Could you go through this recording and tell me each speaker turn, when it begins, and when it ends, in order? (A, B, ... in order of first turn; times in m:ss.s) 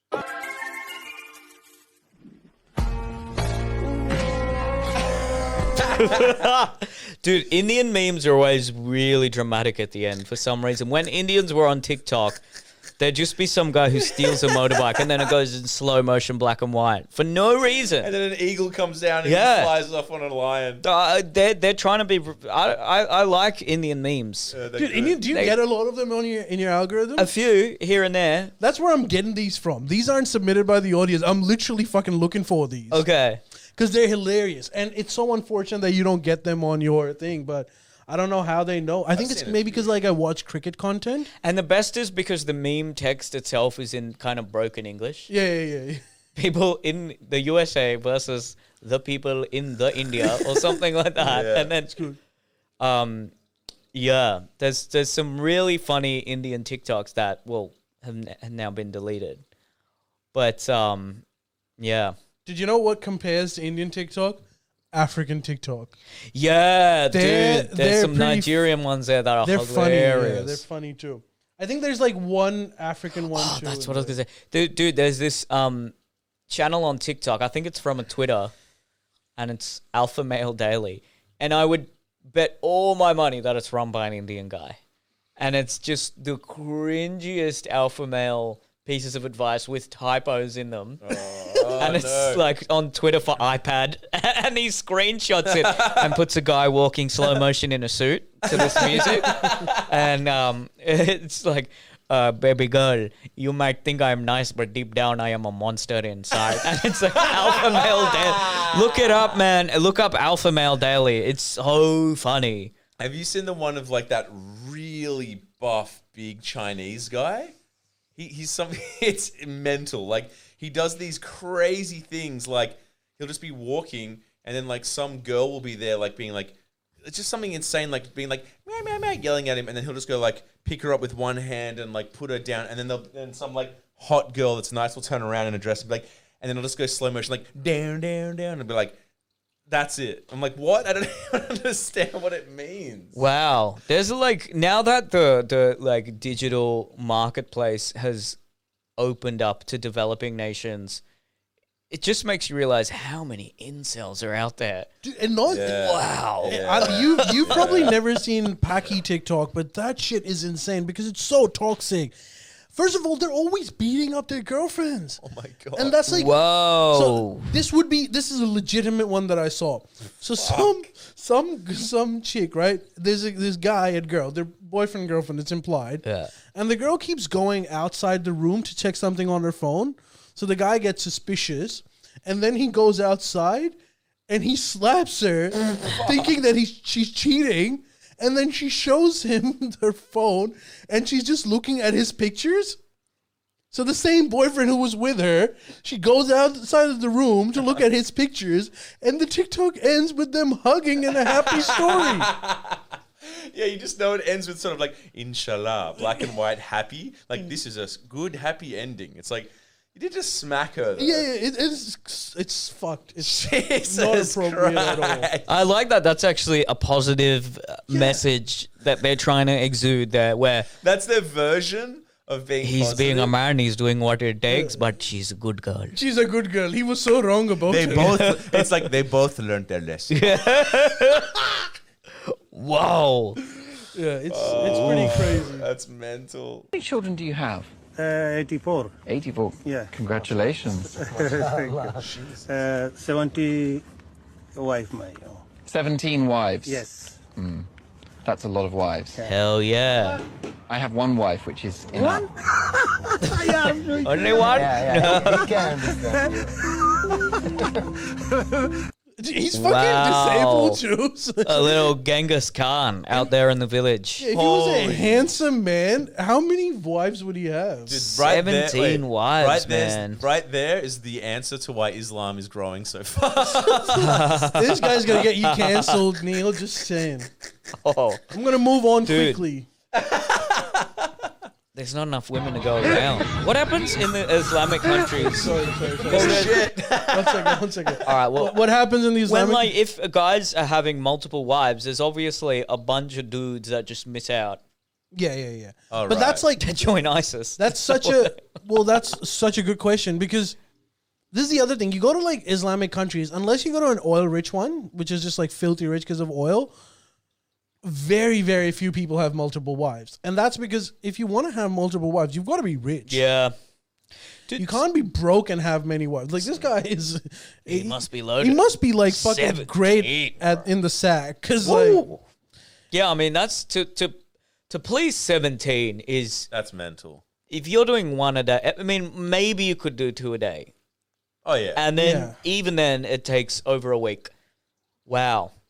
0:05.8-0:12.4 A
0:13.0-0:18.1 A
0:18.0-0:20.8 B
0:19.2-0:19.8 A
0:20.8-0:24.6 A
0:24.5-0:25.4 B
0:24.8-0:27.3 C
0:25.3-0:25.6 A
0:27.2-0:28.5 A
0:28.6-0:33.0 C
0:32.9-0:33.4 A
0:33.8-0:41.3 C
0:39.1-0:39.9 B
0:41.4-0:45.3 A
0:45.3-0:46.0 C
0:46.4-0:52.0 A
0:51.2-0:51.7 B
0:51.9-0:52.2 C
0:52.8-0:53.3 A
0:53.9-0:59.4 A
1:00.3-1:01.2 A
1:01.8-1:02.2 A
1:02.5-1:06.0 C
1:06.3-1:10.6 A
1:07.1-1:08.6 C
1:09.4-1:14.2 C
1:13.3-1:15.9 A
1:16.5-1:18.5 A
1:19.4-1:24.8 A
1:25.4-1:31.2 A
1:31.0-1:32.5 B
1:31.8-1:52.7 A
1:35.5-1:36.2 B
1:38.4-1:39.8 B
1:47.2-1:49.3 B
1:53.0-1:57.6 B
1:58.2-2:19.0 B
2:19.7-2:23.2 B
2:23.2-2:28.4 A
2:29.0-2:31.0 A
2:31.9-2:34.9 A
2:35.0-2:35.7 C
2:35.5-2:38.0 B
2:35.6-2:37.9 A
2:36.4-2:42.1 C
2:42.7-2:45.2 C
2:45.2-2:46.0 B
2:45.8-2:56.0 C
2:46.1-2:47.5 A
2:50.4-2:50.8 B
2:56.0-2:56.3 A
2:56.5-3:03.8 C
3:04.3-3:12.8 C
3:13.7-3:22.3 C
3:21.2-3:31.3 B
3:31.0-3:35.3 C
3:33.2-3:35.5 B
3:35.5-3:40.7 A
3:37.9-3:38.2 C
3:40.8-3:43.3 B
3:42.6-3:46.0 A
3:44.5-3:44.8 C
3:45.9-3:48.2 C
3:47.7-3:50.5 B
3:47.9-3:48.9 A
3:50.1-3:51.5 A
3:52.3-3:53.4 A
3:53.9-3:55.7 C
3:54.3-3:56.7 B
3:54.7-3:55.2 A
3:56.7-3:57.7 D
3:58.0-3:59.0 E
3:59.1-4:01.8 D
3:59.6-4:03.8 E
4:02.0-4:02.5 B
4:04.6-4:05.5 E
4:05.6-4:06.8 D
4:06.6-4:07.2 E
4:07.4-4:07.7 D
4:08.2-4:09.2 D
4:09.2-4:10.2 A
4:10.7-4:12.3 D
4:13.2-4:15.6 A
4:13.2-4:16.6 E
4:14.6-4:15.7 D
4:19.2-4:21.9 C
4:19.6-4:20.8 A
4:21.4-4:24.3 A
4:24.2-4:28.1 C
4:24.3-4:25.3 B
4:27.9-4:34.2 B
4:28.2-4:30.2 A
4:33.5-4:37.3 C
4:34.0-4:36.0 A
4:37.8-4:38.2 A
4:38.3-4:39.7 C
4:39.0-4:39.4 A
4:39.9-4:41.3 B
4:41.8-4:45.5 A
4:45.2-4:49.7 C
4:46.1-4:47.9 B
4:46.1-4:46.5 A
4:48.0-4:48.6 A
4:49.3-4:54.6 A
4:55.1-4:56.9 C
4:55.9-4:56.4 B
4:56.6-4:58.5 A
4:57.6-5:00.6 C
5:01.3-5:06.7 C
5:07.8-5:13.2 C
5:13.1-5:13.5 A
5:14.5-5:14.8 A
5:14.6-5:22.1 C
5:17.7-5:20.6 A
5:21.6-5:22.2 A
5:22.9-5:24.2 A
5:24.7-5:26.5 A
5:26.5-5:27.2 B
5:27.5-5:30.7 A
5:31.4-5:31.9 B
5:31.8-5:34.3 A
5:32.0-5:32.4 C
5:35.1-5:35.5 A